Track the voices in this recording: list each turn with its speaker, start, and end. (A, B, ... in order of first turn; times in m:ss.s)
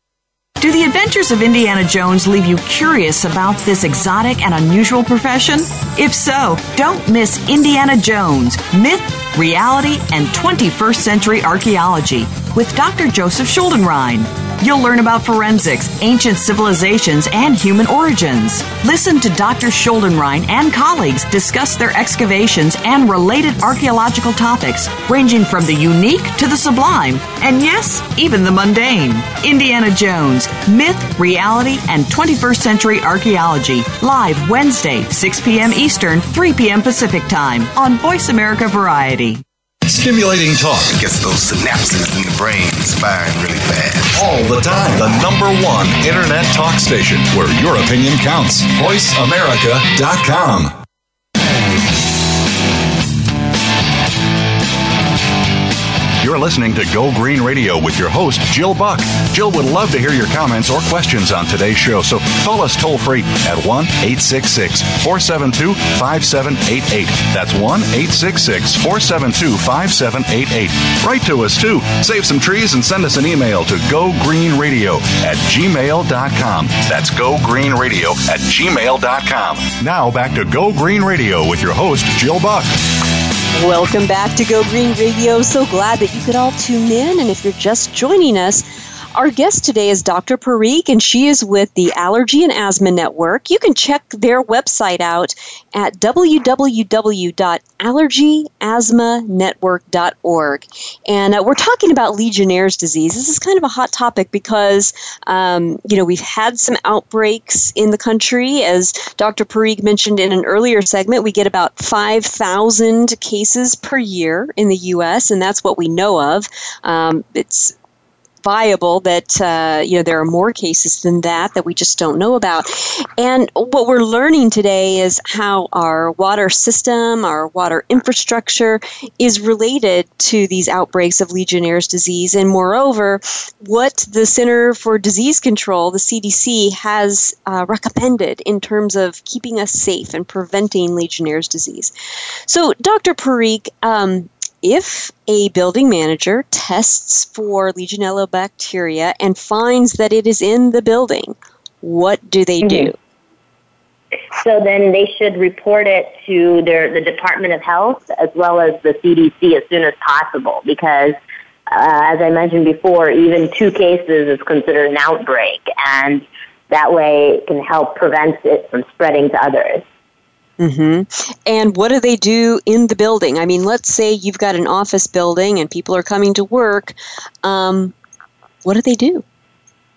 0:00.6-0:39.4 A
0:39.9-0:41.0 B
0:40.9-0:44.1 C
0:44.1-0:50.7 B
0:56.2-1:22.7 B
1:23.5-1:28.6 D
1:29.1-1:57.7 D
1:58.4-2:21.9 D
2:22.5-2:33.0 D
2:32.6-2:32.9 E
2:34.4-2:41.2 E
2:41.7-2:49.8 E
2:50.6-2:57.9 D
2:58.6-2:59.2 D